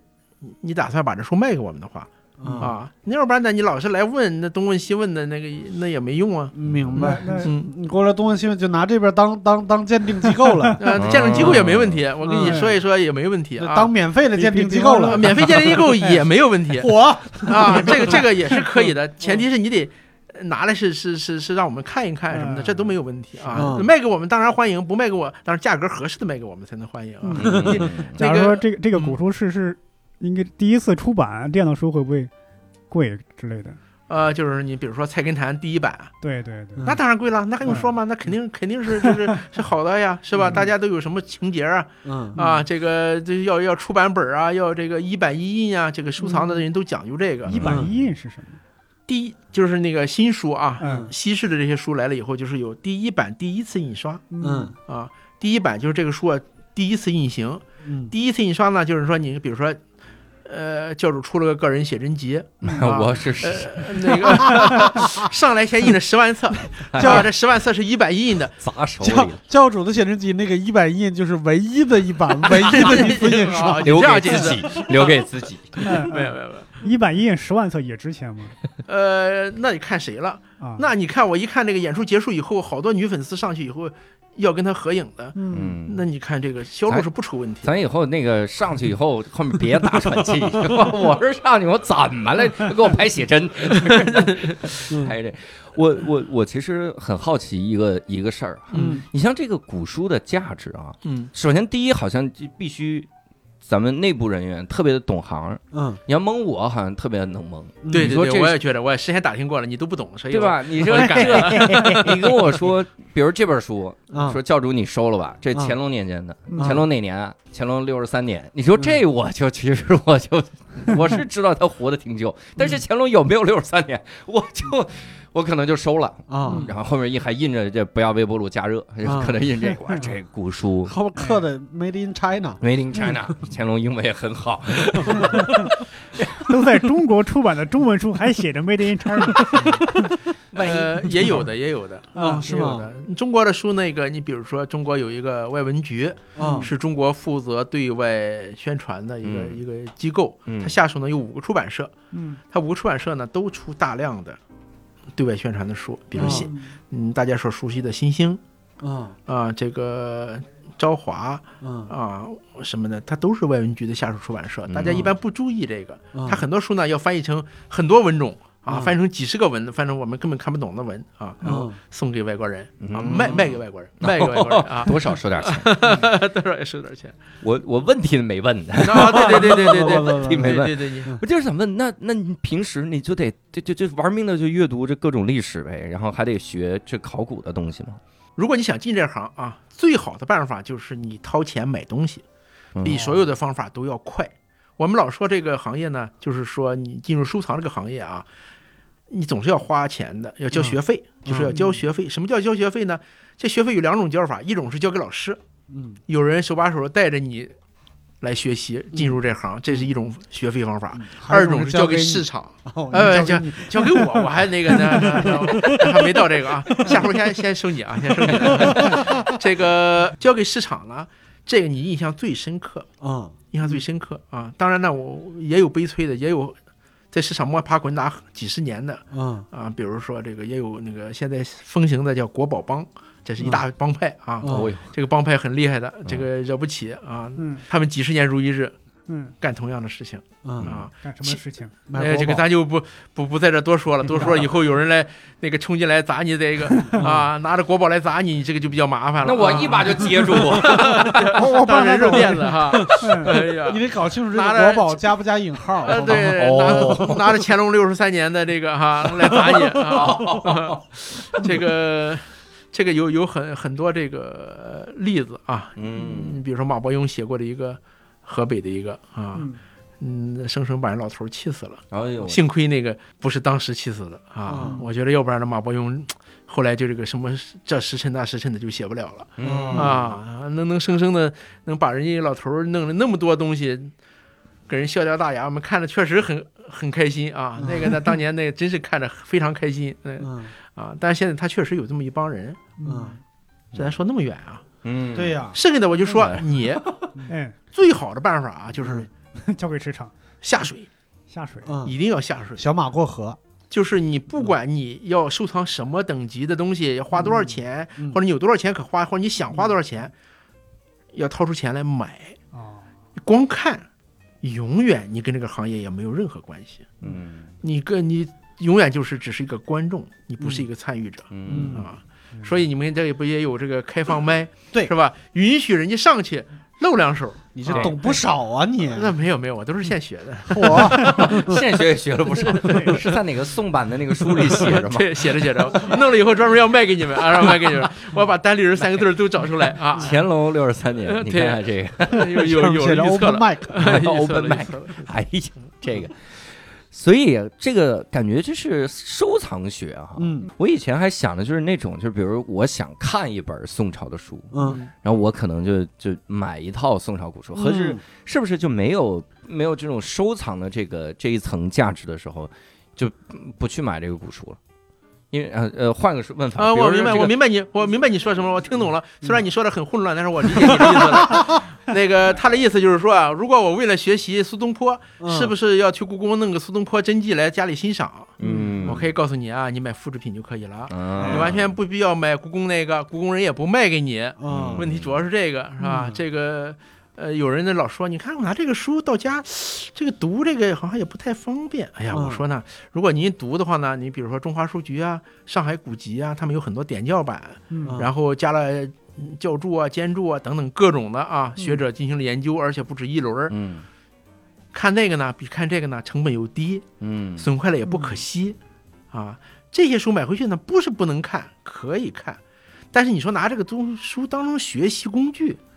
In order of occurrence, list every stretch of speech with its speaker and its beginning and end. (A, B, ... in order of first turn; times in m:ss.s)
0:00.4-0:06.5 A
0:02.4-0:02.7 B
0:06.5-0:10.8 B
0:06.6-0:07.0 C
0:07.0-0:07.5 D
0:07.0-0:07.7 A
0:10.8-0:13.9 A
0:10.9-0:12.0 C
0:12.2-0:12.6 B
0:12.3-0:12.7 D
0:13.6-0:15.8 B
0:14.3-0:16.2 D
0:15.1-0:29.2 A
0:16.8-0:18.2 B
0:22.3-0:22.9 D
0:23.5-0:23.9 B
0:27.2-0:32.3 D
0:27.3-0:28.2 C
0:32.9-0:33.8 D
0:34.1-0:36.1 A
0:36.2-0:36.9 D
0:36.8-0:47.9 A
0:37.6-0:37.9 D
0:39.0-0:39.3 D
0:42.0-0:42.4 B
0:42.4-0:42.6 D
0:46.2-0:46.6 D
0:47.5-0:48.6 D
0:47.5-0:47.9 B
0:49.1-0:54.3 A
0:50.8-0:51.1 D
0:50.8-0:51.1 B
0:54.3-0:54.7 D
0:54.4-0:54.7 B
0:54.9-0:59.8 A
0:57.8-0:58.1 B
1:00.4-1:08.6 A
1:02.6-1:04.2 C
1:04.5-1:05.0 D
1:04.8-1:05.2 B
1:06.8-1:07.3 C
1:07.0-1:07.3 B
1:08.6-1:09.4 C
1:09.0-1:13.9 B
1:12.5-1:15.2 A
1:12.6-1:13.0 C
1:13.8-1:15.8 C
1:15.8-1:18.6 D
1:16.0-1:16.8 A
1:18.9-1:27.7 A
1:20.6-1:20.8 D
1:25.3-1:25.8 D
1:25.5-1:26.0 C
1:27.6-1:43.1 C
1:33.8-1:34.5 A
1:38.7-1:39.0 A
1:38.7-1:39.0 B
1:41.0-1:41.3 A
1:43.6-1:48.6 C
1:45.7-1:46.0 B
1:47.8-1:48.1 B
1:47.9-1:52.4 A
1:50.3-2:10.9 C
1:50.9-1:52.1 B
1:54.1-1:54.4 B
1:56.5-1:56.8 D
1:56.6-1:56.8 B
2:06.3-2:06.7 B
2:06.4-2:06.7 D
2:09.0-2:09.4 B
2:09.6-2:10.0 D
2:10.9-2:12.6 B
2:11.2-2:11.4 D
2:12.6-2:16.5 C
2:15.1-2:15.4 B
2:15.4-2:15.6 D
2:16.4-2:20.1 D
2:19.5-2:19.8 B
2:20.5-2:21.3 C
2:20.5-2:31.9 A
2:22.1-2:22.4 D
2:22.1-2:22.9 B
2:26.3-2:26.7 B
2:26.4-2:26.7 D
2:29.2-2:29.6 C
2:30.5-2:30.7 C
2:32.1-2:32.4 D
2:32.5-2:34.4 A
2:35.1-2:38.4 A
2:36.2-2:36.5 B
2:36.2-2:36.8 D
2:38.8-2:39.2 B
2:39.3-2:57.2 A
2:41.6-2:41.9 B
2:44.7-2:45.1 C
2:46.1-2:46.4 B
2:51.4-2:51.8 B
2:52.8-2:55.8 C
2:57.4-3:08.0 C
2:58.8-3:01.2 A
2:58.9-3:01.2 B
3:08.4-3:12.2 A
3:12.8-3:13.0 C
3:12.8-3:18.3 A
3:19.1-3:25.4 A
3:20.5-3:21.6 B
3:21.5-3:21.8 D
3:25.7-3:26.0 B
3:26.1-3:27.5 A
3:28.2-3:42.9 A
3:30.9-3:37.1 B
3:38.2-3:39.3 B
3:43.0-3:43.3 B
3:43.5-3:46.6 A
3:47.1-3:58.7 A
3:49.1-3:49.4 B
3:54.4-3:54.7 B
3:54.4-3:54.9 C
3:57.4-3:57.6 D
3:59.1-3:59.3 D
3:59.4-4:01.4 A
4:00.4-4:00.7 B
4:00.6-4:00.8 C
4:01.0-4:01.8 D
4:01.9-4:02.4 B
4:02.0-4:15.0 A
4:04.1-4:04.4 D
4:06.7-4:07.1 D
4:09.2-4:11.4 C
4:11.3-4:13.4 D
4:12.3-4:17.2 B
4:15.8-4:29.5 A
4:15.9-4:17.3 C
4:19.3-4:21.5 C
4:25.8-4:26.4 C
4:30.0-4:43.9 A
4:31.9-4:32.4 C
4:34.5-4:34.8 B
4:34.6-4:34.9 D
4:39.4-4:40.1 C
4:39.4-4:40.0 B
4:44.7-4:52.7 A
4:47.6-4:48.1 B
4:50.2-4:50.5 B
4:52.8-4:53.2 D
4:52.8-4:53.2 B
4:53.7-4:54.6 A
4:54.8-4:55.4 C
4:55.1-4:55.6 B
4:55.5-4:56.8 A
4:56.1-4:56.9 C
4:57.3-4:57.5 D
4:57.7-4:59.1 A
4:58.8-4:59.0 B
4:59.4-5:00.1 D
5:00.4-5:00.9 A
5:01.3-5:01.7 D
5:01.6-5:01.9 B
5:01.8-5:02.6 A
5:02.6-5:03.4 B
5:03.7-5:10.1 A
5:11.1-5:12.4 A
5:12.5-5:12.8 D
5:13.2-5:13.8 A
5:14.4-5:16.9 A
5:17.0-5:17.5 C
5:17.6-5:28.0 A
5:21.3-5:21.8 C
5:21.5-5:21.9 B
5:27.5-5:29.1 B
5:27.7-5:28.0 C
5:28.9-5:31.3 A
5:30.5-5:31.6 B
5:30.9-5:35.2 C
5:32.5-5:33.0 D
5:34.4-5:40.2 A
5:39.9-5:42.3 C
5:41.0-5:45.1 A
5:42.4-5:43.9 B
5:43.8-6:04.6 C
5:50.2-5:50.5 B
5:54.5-5:54.8 B
5:57.5-5:58.0 B
6:05.3-6:07.3 C
6:06.6-6:43.5 A
6:15.2-6:15.5 B
6:18.4-6:19.0 B
6:18.4-6:19.0 C
6:20.9-6:21.8 C
6:21.2-6:21.5 B
6:24.4-6:24.8 B
6:24.5-6:25.2 C
6:25.8-6:26.2 B
6:32.1-6:32.4 B
6:37.7-6:38.0 D
6:43.5-6:43.8 C
6:44.7-6:46.8 A
6:47.0-6:47.5 C
6:47.4-6:48.6 A
6:47.8-6:48.2 D
6:49.1-6:52.4 A
6:52.9-6:55.6 A